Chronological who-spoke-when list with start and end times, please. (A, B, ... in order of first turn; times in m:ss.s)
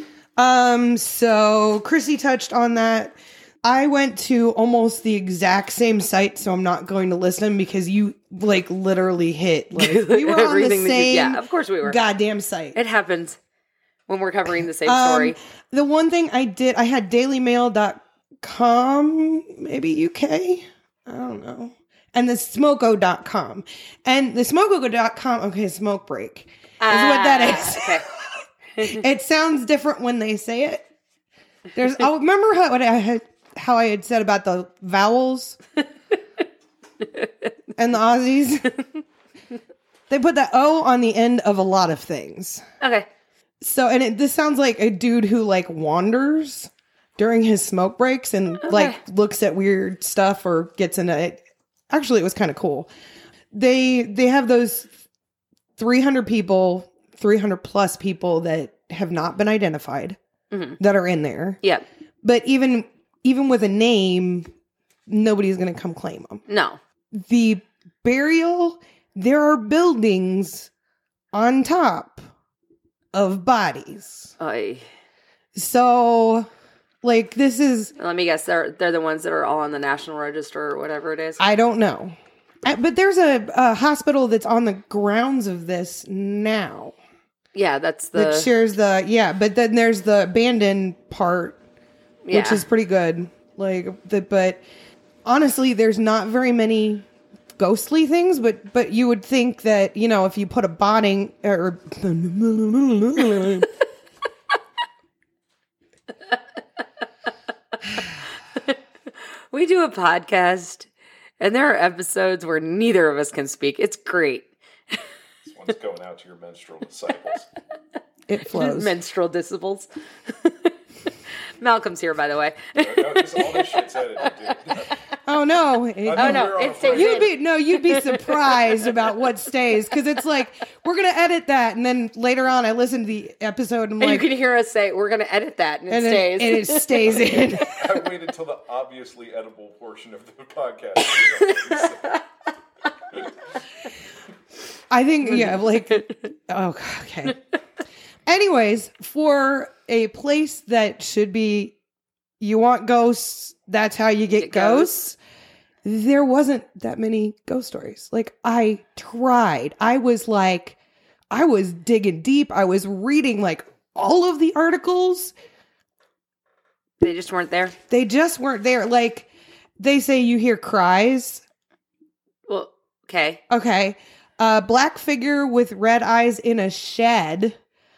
0:00.4-0:12.8 A
0:09.7-0:12.0 B
0:12.7-0:13.4 B
0:14.1-0:15.4 B
0:14.8-0:28.2 A
0:26.8-0:28.0 B
0:28.8-0:30.8 A
0:31.7-0:35.6 A
0:37.0-0:37.3 B
0:37.8-0:38.8 A
0:40.1-0:42.6 A
0:42.8-0:43.1 B
0:43.6-0:52.9 A
0:48.6-0:49.0 B
0:53.5-0:54.9 A
0:55.8-1:00.2 A
1:00.5-1:00.8 B
1:00.8-1:01.6 A
1:02.2-1:04.5 A
1:05.1-1:06.4 A
1:06.5-1:06.8 B
1:07.1-1:10.7 A
1:11.3-1:12.2 A
1:13.1-1:14.3 A
1:14.4-1:14.8 B
1:15.5-1:16.5 A
1:17.0-1:17.9 A
1:18.0-1:21.4 B
1:21.4-1:26.9 A
1:27.5-1:28.5 B
1:28.1-1:31.6 A
1:32.2-1:32.6 B
1:32.3-1:34.6 A
1:35.2-1:37.0 A
1:37.6-1:43.7 A
1:49.5-1:50.9 B
1:51.4-1:55.0 B
1:55.4-1:57.5 C
1:58.3-1:58.9 A
1:58.5-2:00.7 B
2:01.6-2:04.3 B
2:02.8-2:04.9 C
2:05.2-2:14.3 A
2:06.0-2:07.3 C
2:06.1-2:08.6 B
2:14.0-2:17.3 B
2:15.9-2:18.0 A
2:17.6-2:22.2 C
2:21.5-2:21.8 B
2:24.9-2:27.4 A
2:25.3-2:26.1 B
2:28.2-2:31.8 A
2:32.4-2:35.2 A
2:34.4-2:35.0 B
2:35.8-2:40.8 A
2:41.3-2:45.3 A
2:47.0-2:47.8 B
2:47.9-2:49.3 A
2:49.8-2:51.4 A
2:52.5-2:53.4 B
2:53.5-2:57.6 A